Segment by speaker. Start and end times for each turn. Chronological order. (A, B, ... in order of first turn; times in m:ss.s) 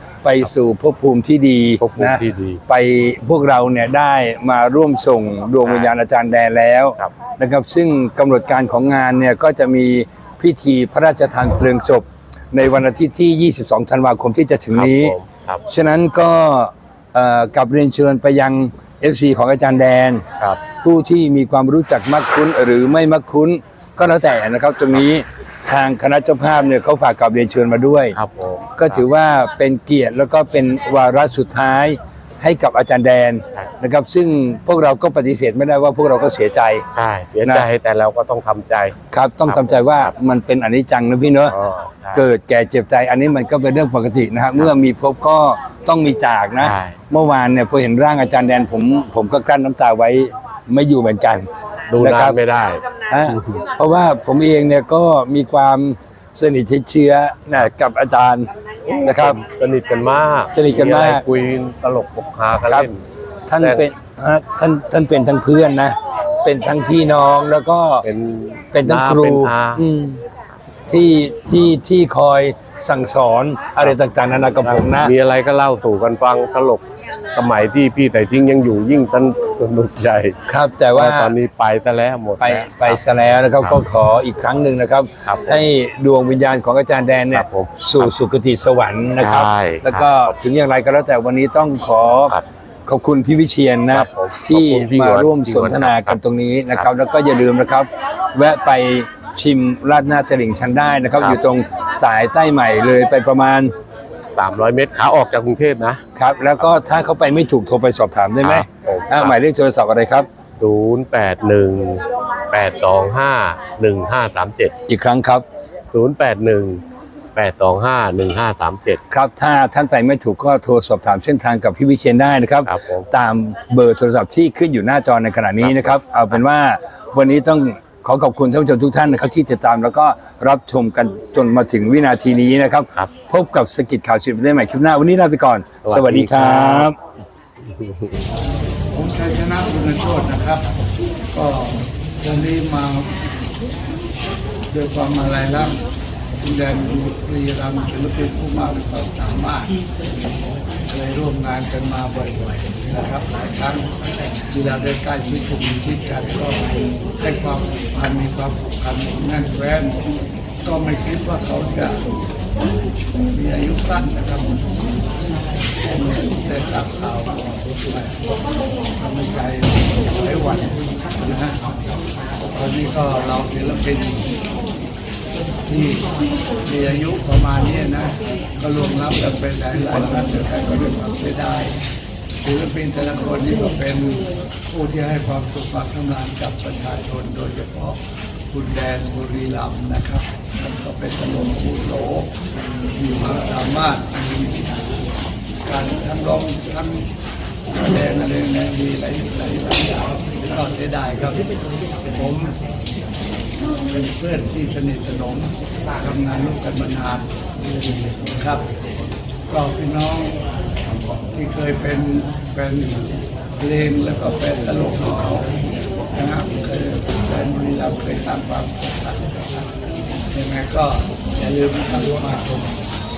0:00.2-0:20.2 A
0:01.8-0:02.6 B
0:05.6-0:05.9 B
0:14.7-0:15.6 B
0:20.8-0:28.2 A
0:28.1-0:29.0 B
0:28.8-0:36.8 A
0:36.9-0:40.1 B
0:39.1-0:41.6 A
0:41.5-0:42.3 B
0:42.1-0:51.5 A
0:46.6-0:47.0 B
0:51.9-0:53.6 B
0:52.0-0:52.4 A
0:53.1-0:58.5 A
0:58.9-1:03.0 B
0:59.0-0:59.4 A
1:00.5-1:01.2 A
1:03.5-1:08.1 A
1:03.6-1:03.9 B
1:08.0-1:09.8 B
1:08.7-1:10.2 A
1:10.9-1:15.1 A
1:14.6-1:16.8 B
1:17.4-1:20.4 B
1:20.5-1:21.4 A
1:20.9-1:23.0 B
1:22.4-1:43.7 A
1:25.2-1:25.6 B
1:27.3-1:28.1 B
1:29.2-1:30.3 B
1:33.9-1:36.2 B
1:44.4-1:46.0 B
1:46.2-1:50.3 A
1:48.4-1:49.4 B
1:50.6-1:54.7 B
1:54.9-1:55.4 A
1:55.9-1:56.8 B
1:57.4-1:59.0 B
1:59.1-2:16.9 A
2:02.6-2:03.1 B
2:05.6-2:06.4 B
2:15.8-2:16.9 B
2:17.7-2:18.2 B
2:18.9-2:20.7 C
2:21.3-2:23.2 C
2:24.7-2:25.8 C
2:26.4-2:29.8 C
2:30.8-2:33.9 C
2:34.5-2:40.0 C
2:40.6-2:42.2 C
2:43.3-2:45.1 C
2:45.7-2:48.3 C
2:48.9-2:51.7 C
2:52.5-2:54.4 C
2:55.6-3:01.8 C
3:02.4-3:08.0 C
3:08.5-3:17.1 C
3:17.7-3:22.6 C
3:23.8-3:27.3 C
3:28.2-3:28.7 C
3:29.5-3:30.4 C
3:31.3-3:35.5 C
3:36.1-3:42.8 C